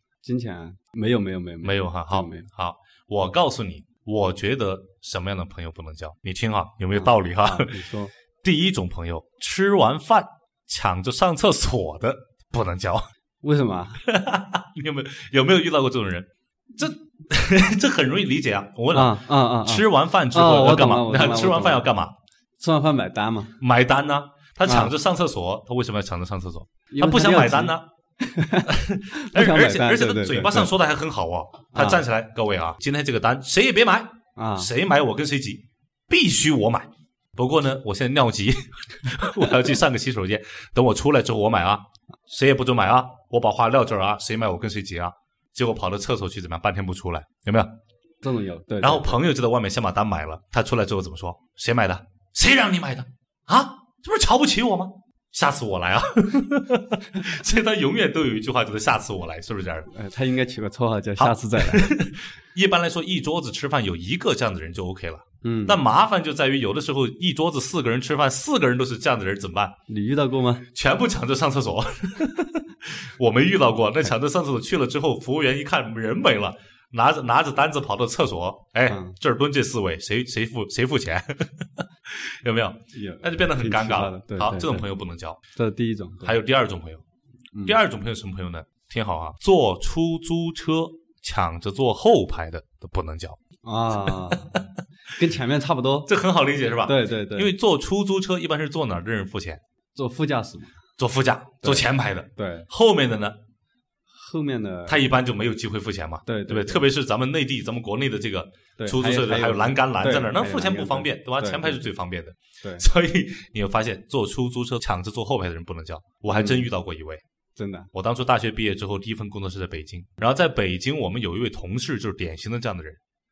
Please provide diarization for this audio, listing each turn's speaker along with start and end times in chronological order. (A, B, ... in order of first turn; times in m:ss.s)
0:00.2-0:02.5 A
0:01.6-0:07.7 B
0:06.9-0:08.1 A
0:08.4-0:13.0 B
0:13.4-0:14.0 A
0:14.0-0:22.1 B
0:18.9-0:21.8 A
0:22.6-0:23.6 A
0:23.6-0:27.8 B
0:24.6-0:24.9 A
0:26.9-0:30.7 A
0:28.7-0:47.7 B
0:31.7-0:32.0 A
0:34.4-0:34.7 A
0:48.2-0:49.2 A
0:48.8-0:59.9 B
0:59.9-1:01.9 A
1:01.2-1:09.7 B
1:05.4-1:05.8 A
1:09.9-1:10.6 A
1:10.7-1:25.4 B
1:18.9-1:19.2 A
1:22.9-1:24.9 A
1:25.6-1:26.4 A
1:26.2-1:27.0 B
1:27.5-1:27.8 A
1:27.6-1:33.4 B
1:33.6-1:34.6 A
1:34.0-1:34.6 B
1:35.1-1:36.1 A
1:36.0-1:39.6 B
1:36.8-1:37.5 A
1:39.9-1:40.7 A
1:41.0-1:43.4 B
1:41.6-1:42.7 A
1:44.1-1:45.0 A
1:44.9-1:57.2 B
1:46.2-1:46.8 A
1:48.8-1:51.8 A
1:56.3-1:56.7 A
1:57.6-1:57.9 A
1:57.9-2:03.0 B